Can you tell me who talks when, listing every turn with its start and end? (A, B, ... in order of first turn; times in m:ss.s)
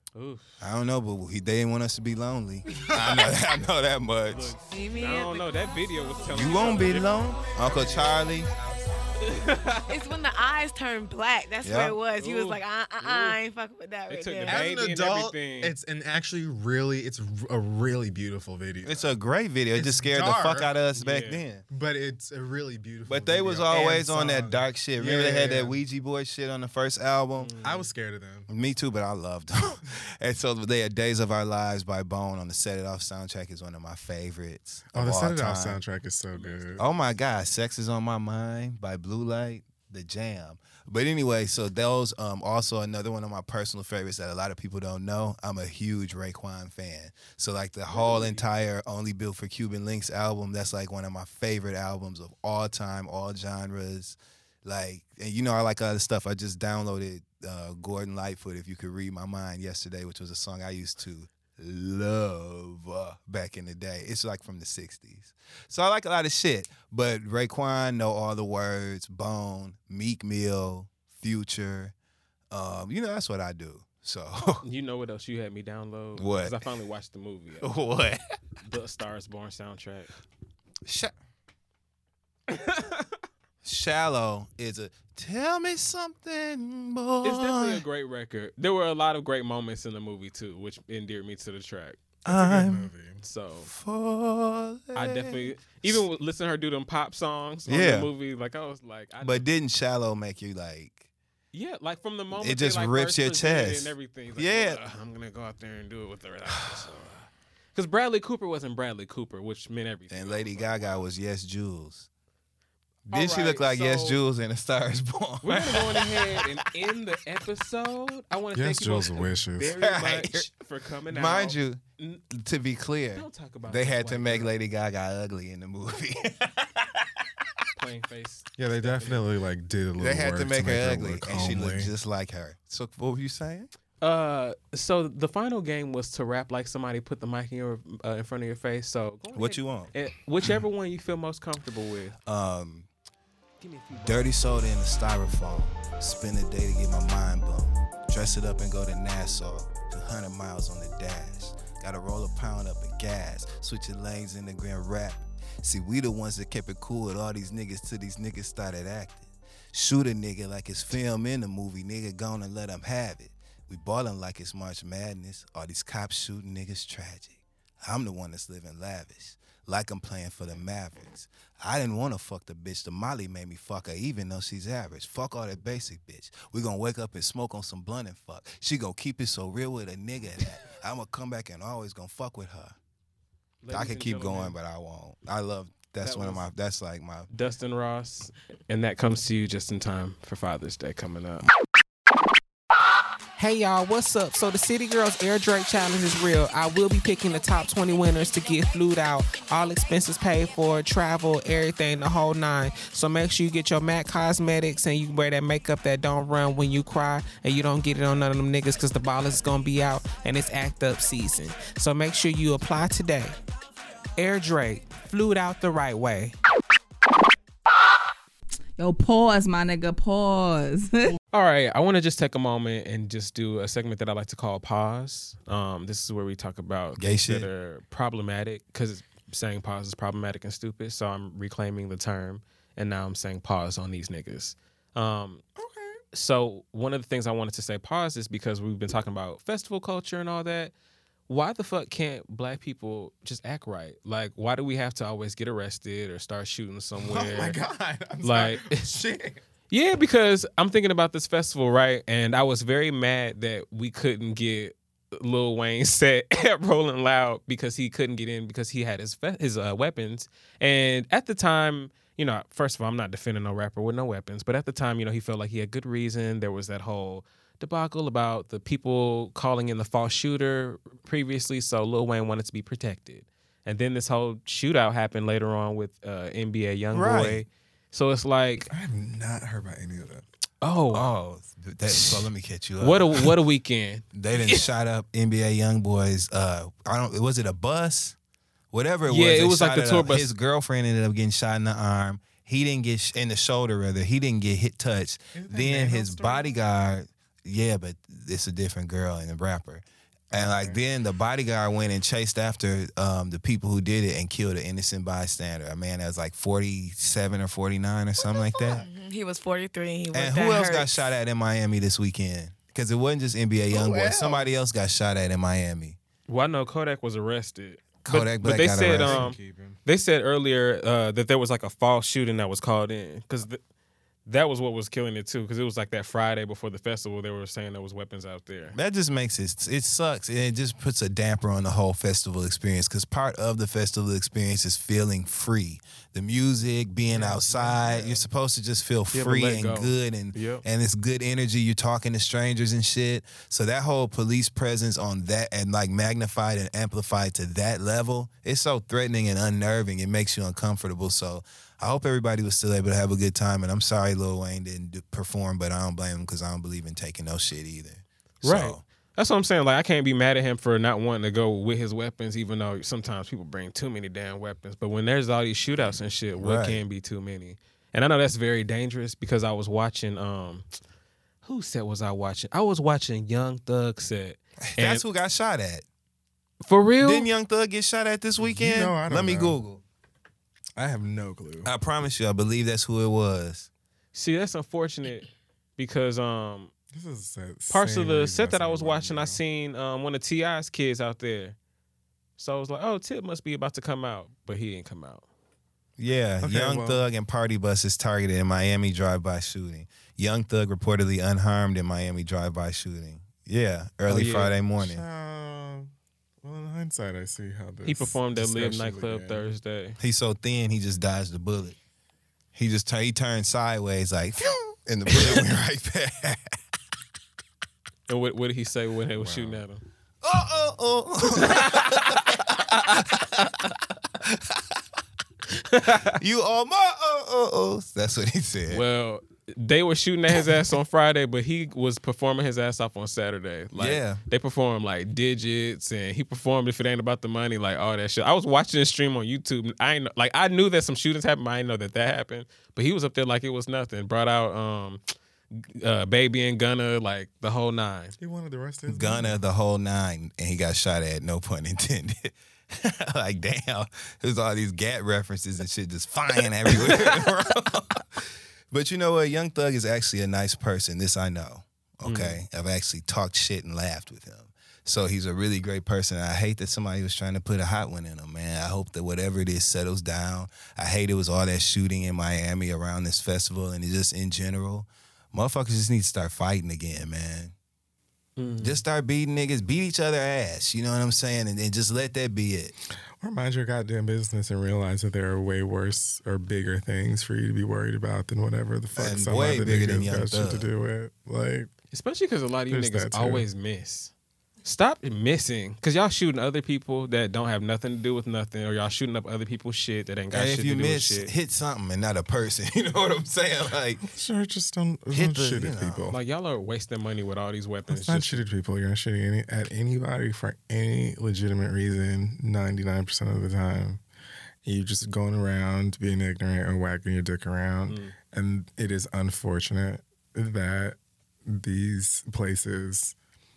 0:00.2-0:00.6 A
0:00.6-0:04.6 B
0:02.7-0:03.4 C
0:04.3-0:07.4 A
0:04.7-0:05.6 D
0:06.3-0:08.5 B
0:06.6-0:09.5 C
0:09.2-0:09.9 A
0:09.9-0:14.6 D
0:11.6-0:12.0 B
0:12.1-0:13.4 A
0:14.1-0:15.8 A
0:14.4-0:19.2 C
0:18.8-0:21.6 B
0:19.7-0:20.7 C
0:21.0-0:21.4 A
0:21.7-0:25.8 C
0:23.1-0:27.5 B
0:27.4-0:27.9 A
0:27.6-0:28.5 C
0:28.5-0:35.8 B
0:34.9-0:36.8 C
0:36.3-0:36.7 A
0:36.8-1:11.9 B
0:47.9-0:48.5 A
1:12.5-1:14.6 B
1:14.6-1:17.7 A
1:16.2-1:16.6 B
1:17.6-1:18.2 B
1:18.6-1:20.1 A
1:20.9-1:21.1 B
1:22.5-1:23.1 A
1:23.6-1:27.8 B
1:27.2-1:32.0 A
1:32.2-1:32.9 B
1:32.3-1:33.2 C
1:33.2-1:33.7 A
1:33.6-1:36.0 B
1:35.0-1:39.5 A
1:37.7-1:38.1 B
1:39.2-1:41.1 B
1:41.5-1:51.0 A
1:42.3-1:44.8 B
1:46.5-1:46.9 B
1:50.1-1:52.1 B
1:53.1-1:54.2 A
1:53.1-1:56.6 B
1:55.4-2:02.2 A
1:58.5-1:59.8 C
1:59.7-2:00.5 B
2:01.1-2:06.8 B
2:03.2-2:04.5 A
2:07.8-2:09.2 A
2:08.6-2:11.9 C
2:10.0-2:13.7 B
2:14.0-2:22.2 A
2:19.3-2:19.9 B
2:22.3-2:22.9 B
2:23.6-2:24.4 A
2:24.0-3:02.8 B
3:03.6-3:04.6 A
3:03.7-3:07.3 B
3:06.0-3:06.5 A
3:07.3-3:11.5 A
3:13.4-3:33.4 E
3:34.2-3:36.4 E
3:38.8-3:41.1 F
3:41.3-3:55.4 A
3:47.0-3:47.5 B
3:55.6-3:56.0 C
3:56.1-4:00.7 A
4:01.3-4:07.6 A
4:07.0-4:09.4 C
4:08.2-4:08.9 A
4:09.7-4:38.7 A
4:36.9-4:37.4 B
4:38.7-4:40.3 C
4:40.6-4:41.1 A
4:40.9-4:43.3 B
4:41.9-4:44.7 A
4:44.1-4:48.2 B
4:48.7-5:08.8 B
4:49.1-4:50.3 A
4:55.3-4:56.6 C
5:00.3-5:00.8 C
5:08.2-5:11.1 D
5:10.1-5:16.0 B
5:13.7-5:14.6 C
5:16.3-5:23.6 A
5:18.0-5:19.3 B
5:18.8-5:19.8 C
5:24.3-5:28.8 A
5:28.7-5:58.8 B
5:37.1-5:38.3 C
5:39.1-5:40.6 A
5:58.4-6:10.7 A
6:05.8-6:06.8 B
6:11.4-6:15.0 A
6:14.7-6:15.8 B
6:16.6-6:17.3 A
6:17.0-6:19.8 B
6:18.4-6:19.6 C
6:20.8-6:21.7 C
6:21.6-6:23.7 B
6:24.1-6:26.7 A
6:26.9-6:29.4 C
6:27.7-6:31.6 A
6:32.4-6:35.3 A
6:36.0-6:45.0 B
6:36.4-6:37.0 C
6:44.1-6:44.5 A
6:44.8-6:49.5 C
6:47.8-6:50.0 A
6:50.0-6:51.8 B
6:52.6-6:56.4 B
6:58.1-6:59.8 A
6:59.2-6:59.6 C
7:00.2-7:03.4 B
7:01.4-7:02.8 A
7:04.2-7:04.6 B
7:05.7-7:06.2 A
7:06.0-7:08.8 B
7:08.7-7:25.0 A
7:13.8-7:14.2 B
7:25.5-7:28.2 A
7:28.2-7:29.4 C
7:28.9-7:57.5 B
7:42.0-7:42.4 A
7:58.4-7:58.8 A
7:58.6-8:02.7 B
8:03.2-8:11.7 C
8:09.0-8:10.7 B
8:11.9-8:14.1 A
8:12.7-8:13.5 C
8:14.6-8:21.3 A
8:20.3-8:24.0 B
8:24.0-8:26.2 C
8:25.1-8:26.1 B
8:26.1-8:28.4 A
8:27.9-8:34.0 C
8:34.6-8:43.2 C
8:37.9-8:38.2 A